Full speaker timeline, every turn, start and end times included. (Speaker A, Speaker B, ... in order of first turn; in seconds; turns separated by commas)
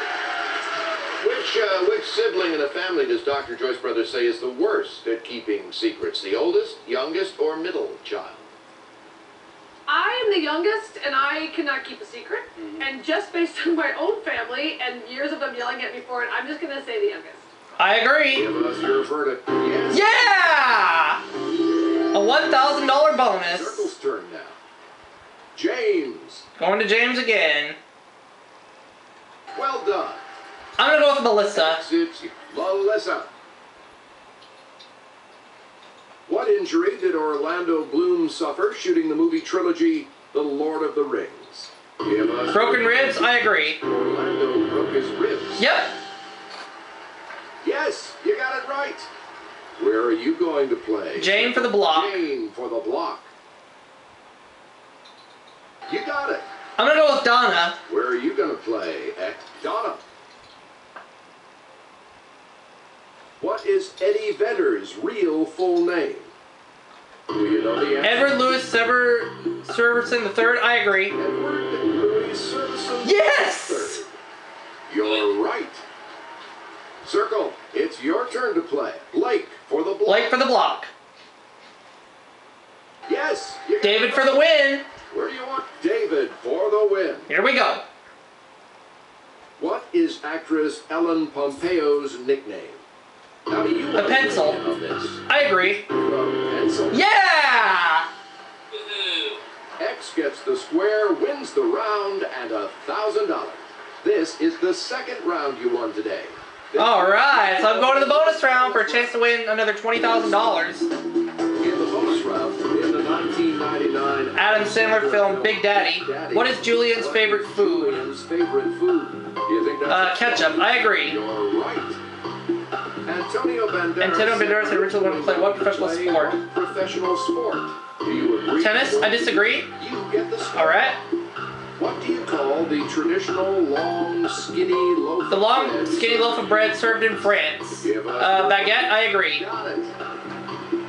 Speaker A: 1.2-8.5, Speaker B: 9.9-17.5, Speaker C: 17.8-18.5, Speaker A: 18.3-20.2, Speaker C: 19.9-21.2, Speaker C: 22.1-23.9, Speaker A: 23.4-24.6, Speaker A: 25.5-26.4, Speaker C: 26.6-27.8, Speaker A: 29.6-30.2, Speaker C: 30.8-31.8, Speaker A: 31.6-33.3, Speaker A: 36.3-45.7, Speaker C: 42.5-43.8, Speaker C: 45.6-46.0, Speaker A: 47.6-49.1, Speaker A: 49.8-53.3, Speaker C: 51.2-52.2, Speaker A: 55.9-56.5, Speaker C: 56.8-57.8, Speaker A: 57.9-60.0, Speaker A: 63.4-66.3, Speaker A: 67.3-68.4, Speaker C: 68.0-71.2, Speaker A: 71.1-74.2, Speaker C: 73.0-74.0, Speaker A: 74.9-75.8, Speaker A: 77.0-80.6, Speaker C: 80.1-80.9, Speaker A: 83.1-84.5, Speaker C: 83.8-84.9, Speaker A: 85.1-87.3, Speaker C: 87.3-87.8, Speaker A: 89.6-92.8, Speaker A: 93.5-95.2, Speaker C: 94.0-94.7, Speaker C: 95.3-95.9, Speaker A: 95.8-97.1, Speaker C: 96.9-98.1, Speaker A: 99.8-109.2, Speaker C: 106.8-110.9, Speaker A: 110.0-110.7, Speaker A: 111.6-122.0, Speaker C: 114.4-118.0, Speaker C: 119.9-121.2, Speaker A: 123.0-130.9, Speaker C: 124.0-126.4, Speaker C: 128.6-129.7, Speaker C: 130.5-131.0, Speaker A: 131.8-137.2, Speaker C: 135.3-139.5, Speaker A: 137.8-139.9